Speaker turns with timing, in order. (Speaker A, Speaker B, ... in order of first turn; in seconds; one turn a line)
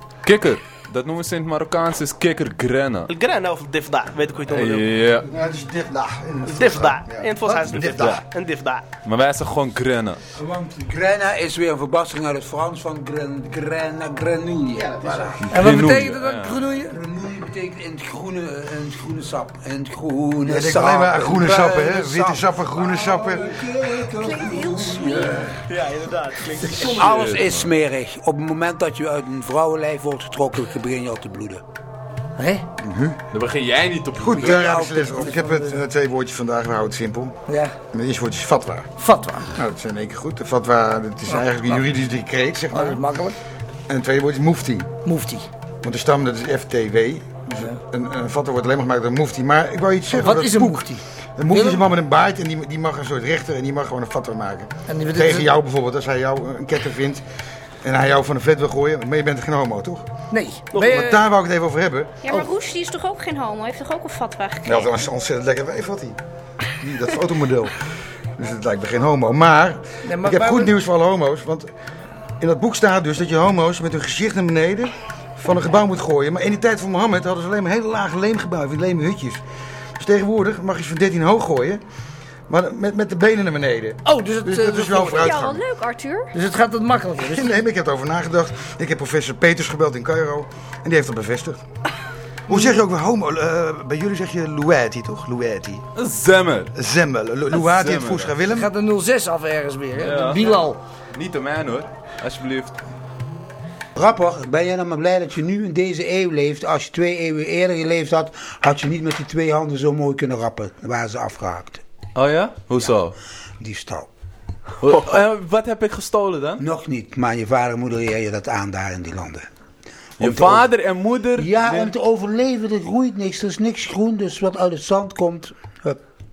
Speaker A: 0.2-3.1
Speaker B: 3.1-4.9
Speaker A: 4.5-5.3
Speaker C: 5.2-8.1
Speaker B: 6.5-8.9
Speaker A: 7.8-8.2
Speaker A: 9.1-10.2
Speaker D: 10.4-15.5
Speaker A: 15.4-16.6
Speaker E: 15.5-17.0
Speaker D: 16.9-25.6
Speaker C: 20.4-23.6
Speaker F: 24.2-25.4
Speaker B: 25.6-27.2
Speaker D: 26.8-31.6
Speaker A: 26.9-27.7
Speaker E: 32.4-32.7
Speaker C: 32.8-33.2
Speaker A: 33.3-34.9
Speaker C: 34.2-37.4
Speaker E: 34.2-35.8
Speaker E: 37.5-37.8
Speaker C: 37.9-38.9
Speaker E: 39.0-39.6
Speaker C: 39.5-43.0
Speaker E: 41.3-41.9
Speaker E: 42.7-43.4
Speaker C: 43.9-44.9
Speaker E: 45.0-45.5
Speaker C: 45.8-57.2
Speaker E: 50.1-51.9
Speaker E: 54.9-55.5
Speaker C: 57.8-60.1
Speaker E: 60.3-61.2
Speaker B: 60.7-61.0
Speaker C: 60.8-62.3
Speaker F: 62.2-64.9
Speaker C: 64.7-66.2
Speaker C: 66.8-67.7
Speaker C: 68.4-71.7
Speaker E: 70.0-70.7
Speaker C: 72.4-79.4
Speaker C: 80.0-81.8
Speaker C: 82.5-85.6
Speaker E: 84.0-85.4
Speaker F: 85.2-86.3
Speaker E: 86.3-87.6
Speaker C: 87.2-91.6
Speaker C: 92.5-95.8
Speaker A: 96.0-96.7
Speaker C: 96.8-98.7
Speaker A: 97.5-98.4
Speaker E: 98.5-100.8
Speaker A: 100.0-100.5
Speaker A: 101.1-102.7
Speaker D: 104.0-111.8
Speaker A: 112.2-113.2
Speaker D: 113.6-114.1
Speaker A: 114.8-116.6
Speaker D: 116.6-119.5
Speaker D: 120.2-120.7
Speaker A: 120.2-121.9
Speaker D: 121.4-126.0